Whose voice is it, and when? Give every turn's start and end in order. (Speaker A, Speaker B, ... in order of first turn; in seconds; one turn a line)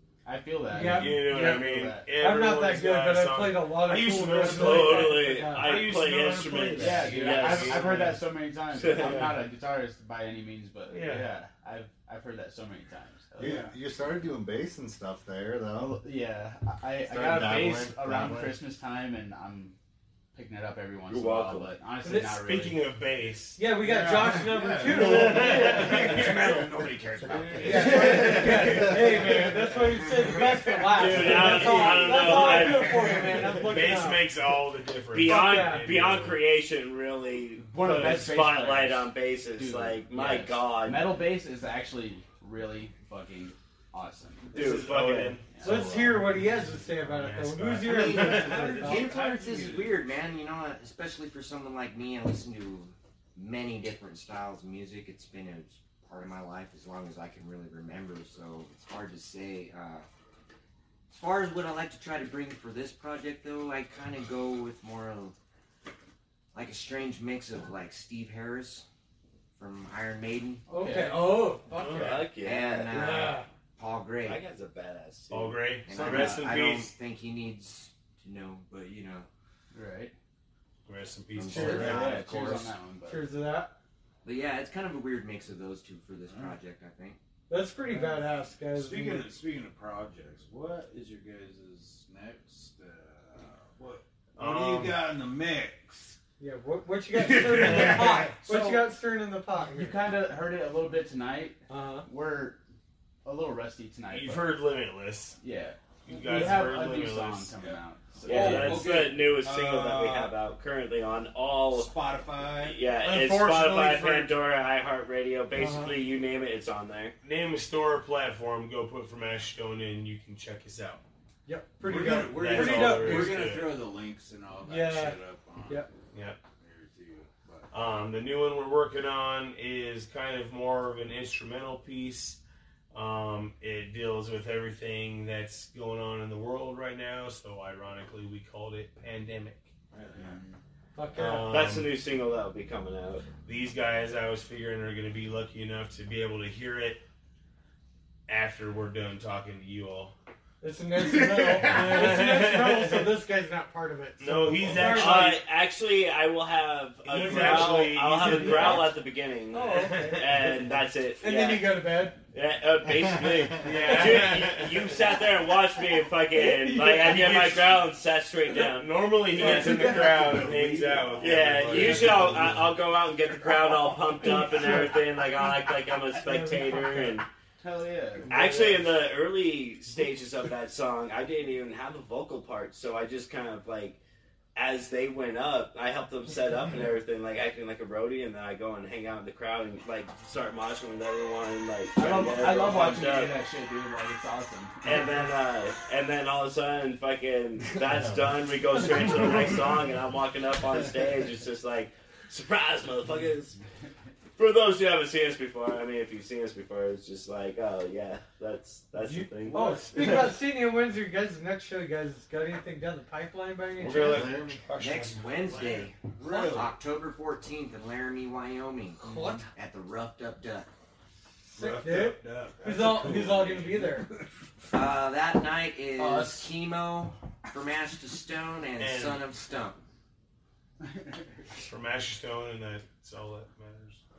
Speaker A: 0.2-2.1
Speaker B: 0.7-5.7
Speaker C: 0.7-8.2
Speaker D: 4.4-8.1
Speaker A: 6.8-13.7
Speaker D: 8.7-9.4
Speaker C: 10.9-11.3
Speaker E: 13.4-16.0
Speaker F: 13.4-13.7
Speaker A: 15.8-19.8
Speaker E: 17.1-18.6
Speaker A: 20.3-22.8
Speaker D: 21.1-21.7
Speaker B: 22.0-22.3
Speaker C: 22.1-23.7
Speaker B: 23.6-25.8
Speaker F: 23.8-28.8
Speaker A: 25.0-26.3
Speaker C: 25.1-26.4
Speaker A: 27.4-28.9
Speaker B: 27.6-34.2
Speaker D: 30.9-33.3
Speaker C: 31.2-33.0
Speaker C: 33.5-36.4
Speaker D: 35.1-41.1
Speaker B: 35.2-35.9
Speaker A: 37.6-44.5
Speaker C: 44.5-45.8
Speaker D: 44.5-45.4
Speaker A: 45.5-45.9
Speaker B: 45.6-49.1
Speaker E: 45.7-46.2
Speaker C: 46.9-49.2
Speaker G: 47.8-60.1
Speaker F: 48.8-50.0
Speaker G: 61.1-65.4
Speaker G: 66.5-68.8
Speaker G: 69.5-70.6
Speaker A: 70.7-71.6
Speaker B: 70.7-72.3
Speaker C: 71.7-72.3
Speaker D: 71.9-73.3
Speaker G: 72.4-74.4
Speaker B: 72.9-73.5
Speaker D: 74.2-75.7
Speaker C: 75.3-76.9
Speaker G: 75.8-79.3
Speaker A: 75.9-76.5
Speaker A: 79.7-80.1
Speaker C: 80.9-82.2
Speaker G: 81.4-82.8
Speaker A: 81.4-83.2
Speaker B: 83.1-83.8
Speaker G: 84.2-87.2
Speaker F: 86.3-86.5
Speaker B: 87.5-89.3
Speaker F: 87.9-96.2
Speaker C: 94.4-95.1
Speaker B: 96.4-100.0
Speaker F: 97.1-98.4
Speaker A: 98.3-98.9
Speaker A: 99.7-102.6
Speaker B: 101.7-102.1
Speaker A: 103.2-104.6
Speaker C: 104.1-105.4
Speaker A: 105.4-108.8
Speaker C: 106.1-107.5
Speaker F: 107.6-110.3
Speaker D: 108.3-117.2
Speaker F: 111.7-112.8
Speaker C: 113.0-114.3
Speaker B: 115.5-116.0
Speaker C: 117.2-121.0
Speaker B: 121.5-123.5
Speaker F: 121.8-125.9
Speaker C: 122.1-123.9
Speaker B: 124.6-125.9
Speaker C: 126.1-126.4
Speaker F: 126.6-127.7
Speaker C: 127.7-132.4
Speaker C: 132.9-139.7
Speaker F: 139.9-140.6
Speaker B: 140.9-141.5
Speaker C: 141.2-141.9
Speaker D: 141.5-143.3
Speaker C: 143.4-147.0
Speaker C: 148.3-150.2
Speaker B: 150.6-155.4
Speaker F: 151.2-151.9
Speaker C: 151.6-153.1
Speaker C: 154.2-155.4
Speaker D: 154.8-161.8
Speaker C: 157.0-159.0
Speaker B: 157.1-160.4
Speaker C: 159.7-160.3
Speaker B: 161.2-162.2
Speaker D: 162.3-169.7
Speaker C: 163.6-165.1
Speaker C: 166.6-167.9
Speaker C: 168.5-172.6
Speaker F: 169.4-172.8
Speaker B: 169.4-170.0
Speaker D: 171.2-177.3
Speaker B: 174.2-175.0
Speaker B: 176.2-177.2
Speaker A: 177.6-178.4
Speaker D: 178.3-184.0
Speaker D: 184.6-193.4
Speaker A: 192.0-195.0
Speaker D: 194.8-203.6
Speaker E: 197.9-198.3
Speaker D: 204.4-210.1
Speaker B: 209.4-214.3
Speaker F: 209.5-209.8
Speaker C: 213.8-215.9
Speaker E: 213.9-214.6
Speaker G: 214.8-220.7
Speaker F: 216.1-216.7
Speaker B: 216.3-216.6
Speaker B: 219.0-219.4
Speaker F: 221.6-224.0
Speaker B: 221.6-224.1
Speaker G: 224.7-229.8
Speaker A: 226.0-226.5
Speaker C: 228.8-229.3
Speaker C: 231.5-234.0